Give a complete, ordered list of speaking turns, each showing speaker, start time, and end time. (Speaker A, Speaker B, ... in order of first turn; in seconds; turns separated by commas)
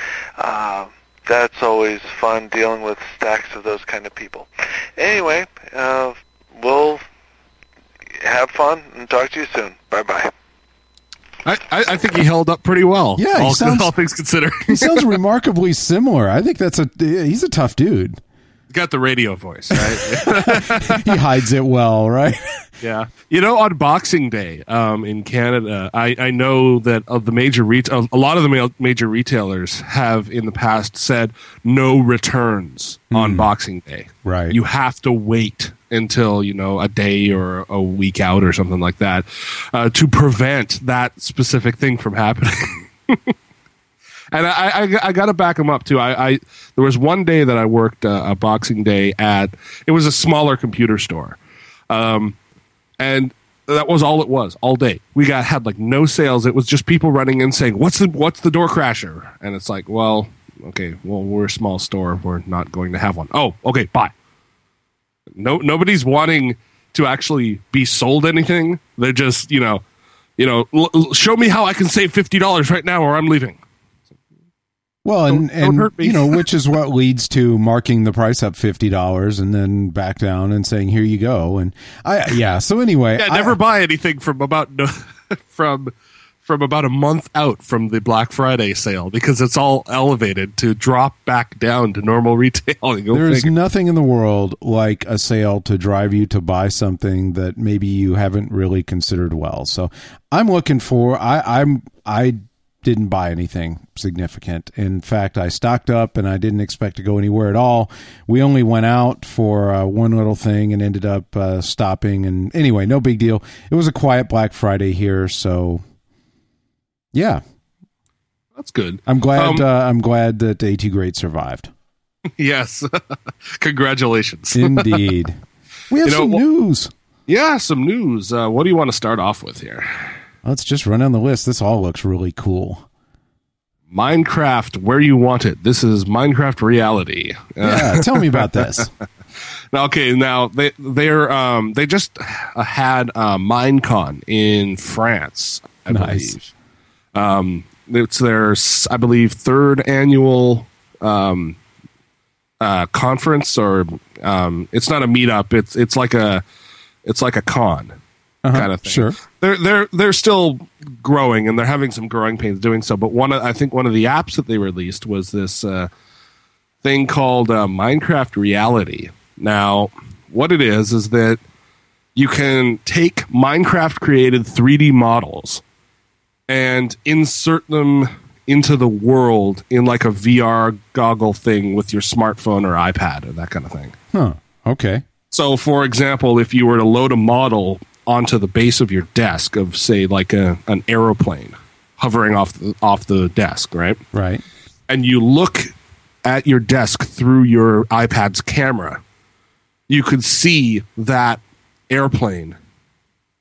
Speaker A: 0.4-7.0, Speaker A: 8.2-10.3, Speaker B: 11.4-15.1, Speaker C: 13.2-13.9, Speaker C: 14.7-18.2, Speaker B: 18.7-21.2, Speaker C: 19.7-22.7, Speaker B: 22.8-43.3, Speaker C: 33.1-33.5, Speaker C: 34.2-34.6, Speaker B: 44.3-51.4, Speaker B: 51.9-52.4, Speaker B: 53.0-64.1, Speaker B: 65.4-69.8, Speaker B: 70.4-73.6, Speaker C: 75.0-83.6, Speaker B: 75.3-76.4, Speaker B: 83.2-85.9, Speaker B: 86.5-93.5, Speaker C: 93.1-115.8, Speaker C: 117.1-117.4, Speaker B: 118.6-119.6, Speaker C: 119.1-121.7, Speaker B: 122.4-125.0, Speaker C: 124.5-125.4, Speaker C: 125.9-126.9, Speaker B: 126.0-126.4, Speaker B: 127.3-130.1, Speaker C: 130.4-132.8, Speaker B: 133.9-138.9, Speaker C: 137.6-138.9, Speaker B: 139.7-146.4, Speaker C: 145.9-146.4, Speaker B: 147.1-151.6, Speaker B: 152.6-156.4, Speaker B: 157.1-157.9, Speaker C: 158.4-159.2, Speaker B: 158.5-165.9, Speaker B: 166.8-171.4, Speaker B: 172.2-175.6, Speaker B: 176.5-183.9, Speaker C: 184.1-185.1, Speaker B: 185.3-194.0, Speaker C: 194.1-194.4, Speaker B: 194.9-195.7, Speaker B: 196.2-199.0, Speaker B: 199.9-202.6